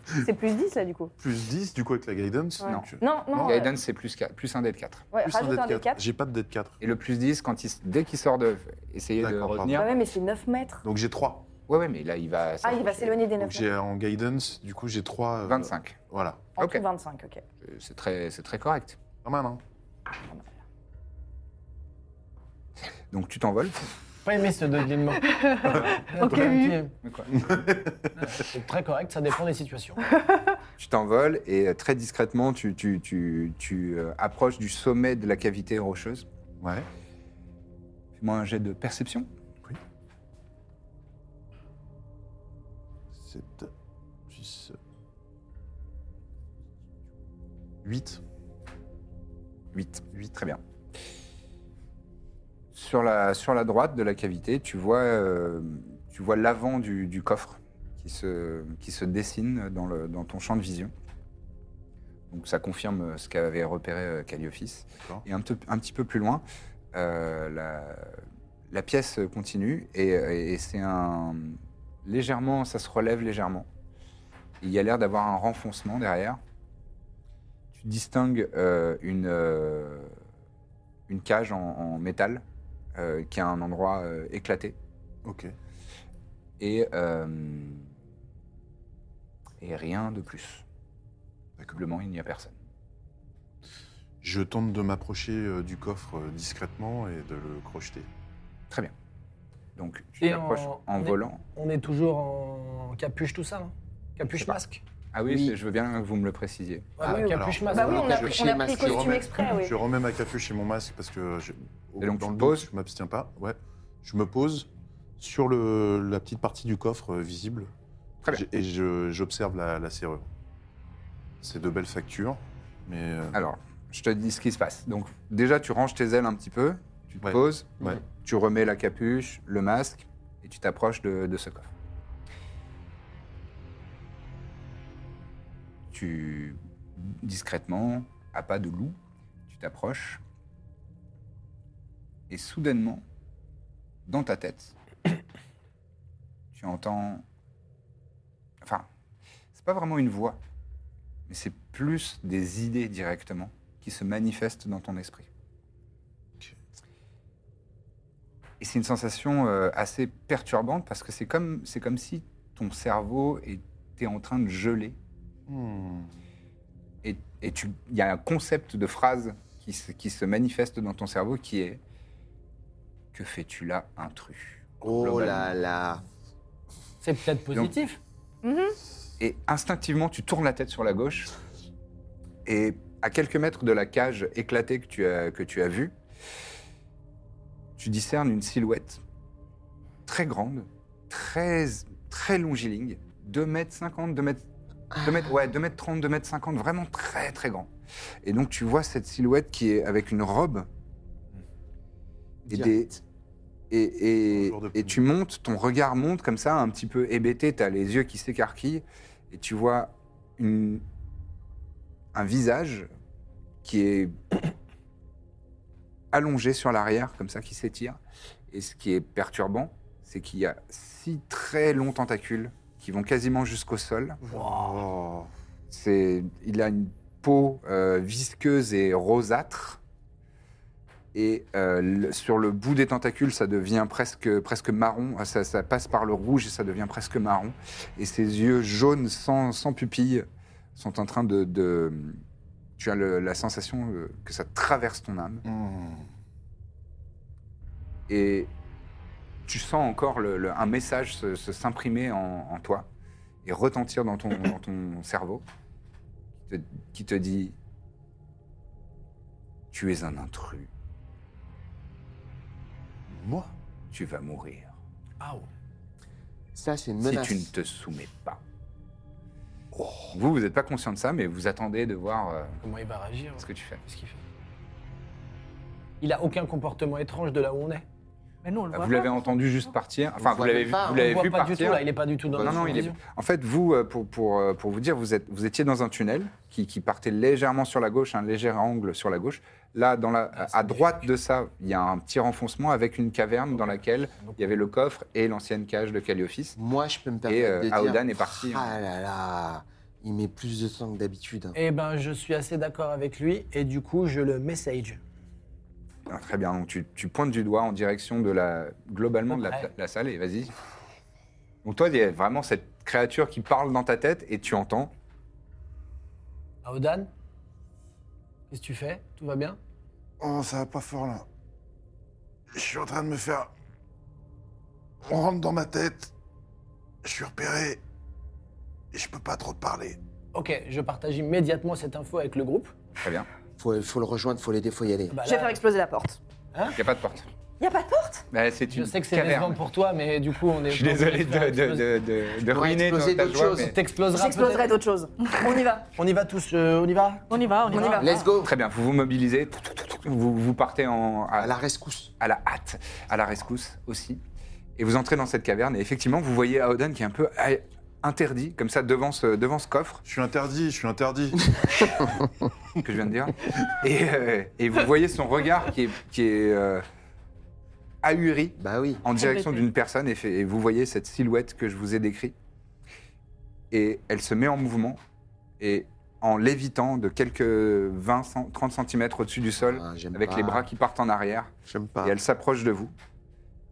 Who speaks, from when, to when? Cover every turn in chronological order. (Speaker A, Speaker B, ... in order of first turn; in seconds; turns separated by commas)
Speaker A: 0.2-1.1, Speaker B: 1.2-3.6, Speaker A: 2.6-3.7, Speaker C: 2.6-5.1, Speaker A: 5.1-6.0, Speaker B: 5.2-6.8, Speaker C: 6.8-10.0, Speaker B: 9.2-9.9, Speaker A: 9.7-10.8, Speaker B: 10.8-11.5, Speaker C: 11.7-13.2, Speaker A: 12.6-13.7, Speaker B: 13.4-16.5, Speaker C: 15.4-16.0, Speaker A: 16.6-17.4, Speaker C: 16.6-16.8, Speaker C: 17.6-19.0, Speaker B: 19.2-19.6, Speaker C: 23.1-23.9, Speaker D: 24.2-26.9, Speaker E: 25.2-26.9, Speaker C: 27.0-27.4, Speaker B: 27.3-28.4, Speaker D: 28.2-30.0, Speaker C: 30.8-36.3, Speaker B: 36.6-36.9, Speaker C: 38.2-39.3, Speaker B: 43.1-43.7, Speaker B: 44.3-44.8, Speaker B: 47.8-48.2, Speaker C: 49.7-50.6, Speaker C: 52.7-60.9, Speaker C: 62.3-73.7, Speaker B: 65.0-65.2, Speaker C: 74.6-76.4, Speaker C: 77.7-80.1, Speaker C: 81.1-82.4, Speaker C: 83.0-84.8, Speaker B: 85.2-85.5, Speaker C: 86.6-87.9, Speaker C: 89.6-90.6, Speaker C: 91.7-92.5, Speaker B: 94.2-98.1, Speaker C: 99.8-101.4, Speaker D: 100.2-104.8, Speaker C: 105.1-107.1, Speaker F: 105.2-105.6, Speaker D: 107.0-108.4, Speaker B: 107.0-117.7, Speaker A: 107.1-109.8, Speaker F: 107.9-109.3, Speaker C: 112.0-112.7, Speaker B: 118.3-120.3, Speaker B: 121.4-123.4, Speaker C: 123.3-131.7, Speaker B: 127.2-128.0, Speaker C: 135.9-139.0, Speaker C: 139.5-140.2, Speaker C: 142.3-143.0, Speaker C: 144.1-144.7, Speaker C: 146.5-147.2, Speaker C: 149.5-150.4, Speaker C: 151.3-155.3, Speaker C: 158.6-165.0, Speaker B: 165.5-166.1, Speaker C: 167.0-171.8, Speaker C: 173.1-175.5, Speaker F: 174.8-176.0, Speaker D: 177.0-178.0, Speaker A: 178.4-178.8, Speaker C: 179.2-181.3, Speaker C: 182.4-185.9, Speaker C: 187.8-189.0, Speaker C: 190.1-194.4, Speaker F: 194.9-195.3, Speaker C: 195.0-197.7, Speaker C: 198.2-200.7, Speaker C: 202.5-203.0, Speaker F: 202.5-202.8, Speaker C: 203.7-210.8, Speaker B: 204.3-205.0, Speaker C: 212.1-212.9, Speaker C: 213.6-214.2, Speaker C: 216.1-218.0, Speaker C: 218.5-224.2, Speaker B: 224.3-225.3, Speaker C: 225.7-229.8, Speaker C: 231.1-240.2, Speaker C: 240.8-242.2, Speaker C: 242.8-245.4, Speaker B: 245.4-246.1, Speaker C: 248.1-248.5, Speaker C: 249.5-252.9, Speaker C: 253.4-255.4, Speaker C: 256.5-257.6, Speaker C: 259.7-260.7, Speaker B: 263.1-263.5, Speaker C: 263.9-264.8, Speaker D: 265.2-265.5, Speaker F: 266.6-267.5, Speaker C: 267.0-268.4, Speaker B: 269.7-270.1, Speaker C: 270.1-272.6, Speaker D: 272.6-274.2, Speaker C: 273.4-273.8, Speaker D: 276.0-277.9, Speaker E: 278.4-279.7, Speaker C: 278.7-281.8, Speaker F: 280.2-281.3, Speaker D: 280.9-283.0, Speaker F: 282.3-282.9, Speaker C: 282.4-296.6, Speaker D: 290.4-291.1, Speaker D: 293.5-294.5, Speaker F: 296.6-301.6, Speaker C: 297.3-298.8, Speaker D: 301.6-305.0, Speaker C: 306.1-310.5, Speaker D: 309.3-309.7, Speaker C: 311.6-314.9, Speaker D: 316.6-317.1, Speaker D: 318.5-319.6, Speaker B: 320.2-321.3, Speaker B: 322.5-323.5, Speaker B: 325.0-326.1, Speaker B: 327.0-327.8, Speaker B: 328.9-330.0, Speaker D: 330.3-332.7, Speaker C: 333.0-333.3, Speaker F: 333.6-335.2, Speaker D: 335.1-335.6, Speaker A: 335.2-336.2, Speaker C: 336.8-337.3, Speaker A: 337.6-338.3, Speaker C: 338.3-339.6, Speaker D: 338.7-341.9, Speaker C: 340.7-343.8, Speaker F: 342.5-343.7, Speaker D: 343.6-344.7, Speaker A: 344.1-345.9, Speaker D: 345.9-347.6, Speaker E: 347.3-348.3, Speaker A: 347.7-348.2, Speaker F: 348.0-348.6, Speaker C: 348.4-351.6, Speaker F: 351.4-352.1, Speaker C: 352.2-354.2, Speaker C: 354.8-360.0, Speaker B: 360.1-361.8, Speaker F: 361.5-362.1, Speaker C: 362.8-366.8, Speaker C: 368.0-372.4, Speaker F: 368.6-369.1, Speaker E: 369.1-369.6, Speaker C: 373.7-375.0, Speaker C: 375.6-381.5, Speaker F: 379.6-380.7, Speaker F: 381.7-382.2, Speaker C: 382.0-382.9